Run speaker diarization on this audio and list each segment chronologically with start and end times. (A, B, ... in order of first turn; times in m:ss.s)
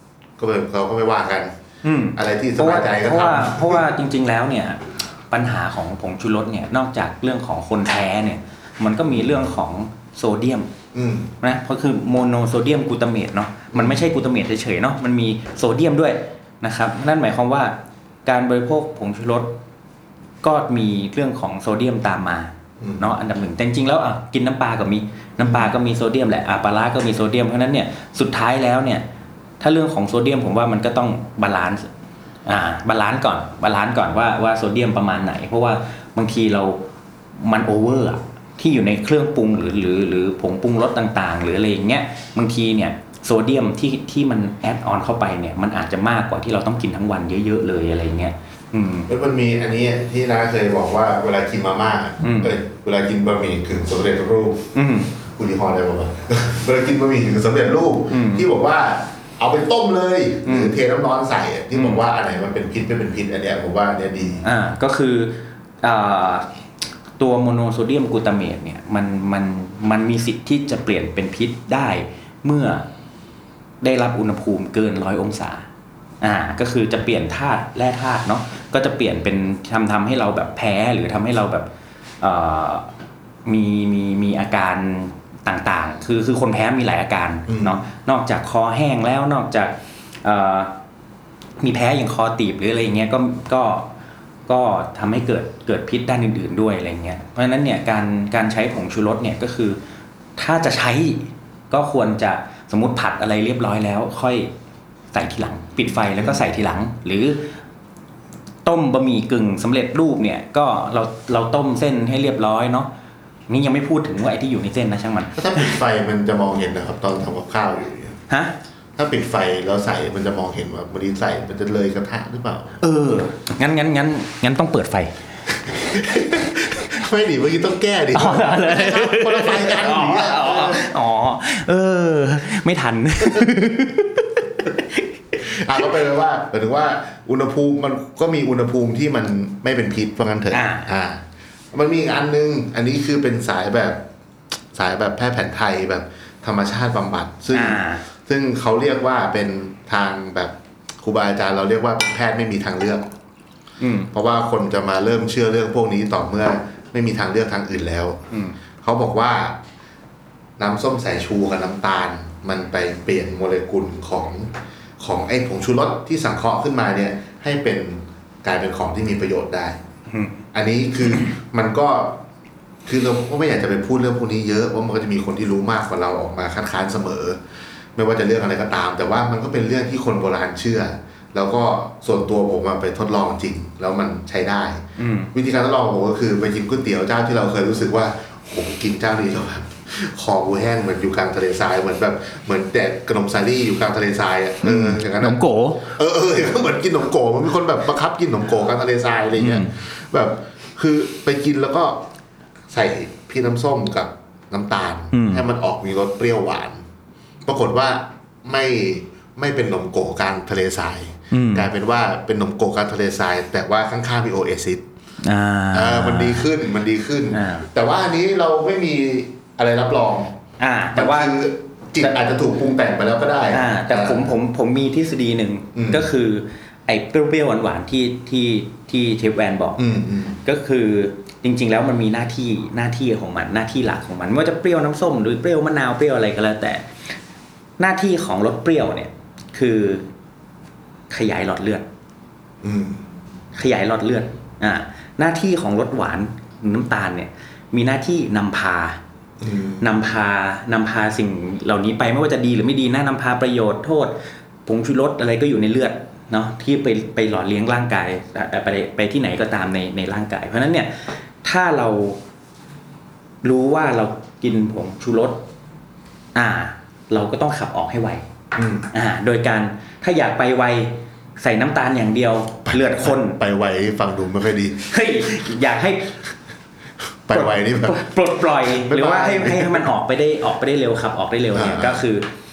0:00.4-0:01.5 A
0:01.8-0:10.7 B
0:02.1-0:03.8 A
0:09.1-0:09.4 A
0:10.9-0:11.3 A
0:11.4-0:19.6 B
0:13.7-0:14.0 A
0:20.4-0:29.0 B
0:22.8-0:23.1 A
0:25.4-0:25.7 A
0:29.6-0:31.9 B
0:32.4-0:36.8 B
0:37.4-0:49.1 B
0:49.1-0:54.7 A
0:52.2-0:52.5 B
0:54.7-0:55.1 B
0:55.3-1:04.4 A
0:58.1-0:58.5 B
1:00.4-1:00.7 B
1:01.7-1:02.0 B
1:04.4-1:06.5 B
1:07.2-1:12.9 B
1:13.8-1:15.7 B
1:16.2-1:21.7 B
1:22.2-1:22.9 B
1:23.4-1:30.7 B
1:27.5-1:27.8 A
1:31.6-1:33.9 B
1:34.5-1:39.8 B
1:40.4-1:44.5 B
1:45.1-1:47.5 B
1:46.2-1:46.5 A
1:48.6-1:52.9 B
1:53.5-1:55.7 B
1:55.3-1:58.2 A
1:58.3-1:58.5 B
1:59.0-2:02.8 A
2:02.8-2:05.2 B
2:05.8-2:10.9 A
2:08.1-2:15.1 B
2:15.4-2:24.0 A
2:20.5-2:20.9 B
2:24.7-2:33.0 A
2:27.5-2:28.0 B
2:33.8-2:34.1 B
2:34.1-2:38.2 A
2:38.3-2:38.6 B
2:38.8-2:39.6 A
2:40.6-2:49.8 A
2:50.1-2:50.4 B
2:50.5-2:52.2 A
2:52.8-2:57.4 A
2:58.0-3:22.0 A
3:05.0-3:05.3 B
3:14.6-3:15.9 B
3:19.4-3:19.7 B
3:22.7-3:26.8 A
3:25.1-3:25.4 B
3:27.4-3:34.8 A
3:31.3-3:31.7 B
3:35.2-3:36.5 B
3:35.7-3:40.4 A
3:37.3-3:37.7 B
3:40.6-3:41.3 B
3:40.9-3:44.3 A
3:43.5-3:49.8 B
3:45.7-3:46.1 A
3:49.8-3:50.4 A
3:50.4-3:56.9 B
3:57.8-4:00.1 B
4:01.1-4:01.8 B
4:02.6-4:03.0 A
4:03.6-4:09.0 B
4:09.4-4:09.8 A
4:09.8-4:22.2 B
4:23.4-4:25.4 B
4:26.3-4:28.2 B
4:28.5-4:28.9 A
4:28.9-4:33.4 B
4:32.6-4:35.0 A
4:34.9-4:36.2 B
4:37.2-4:39.8 A
4:37.3-4:42.2 B
4:41.5-4:42.0 A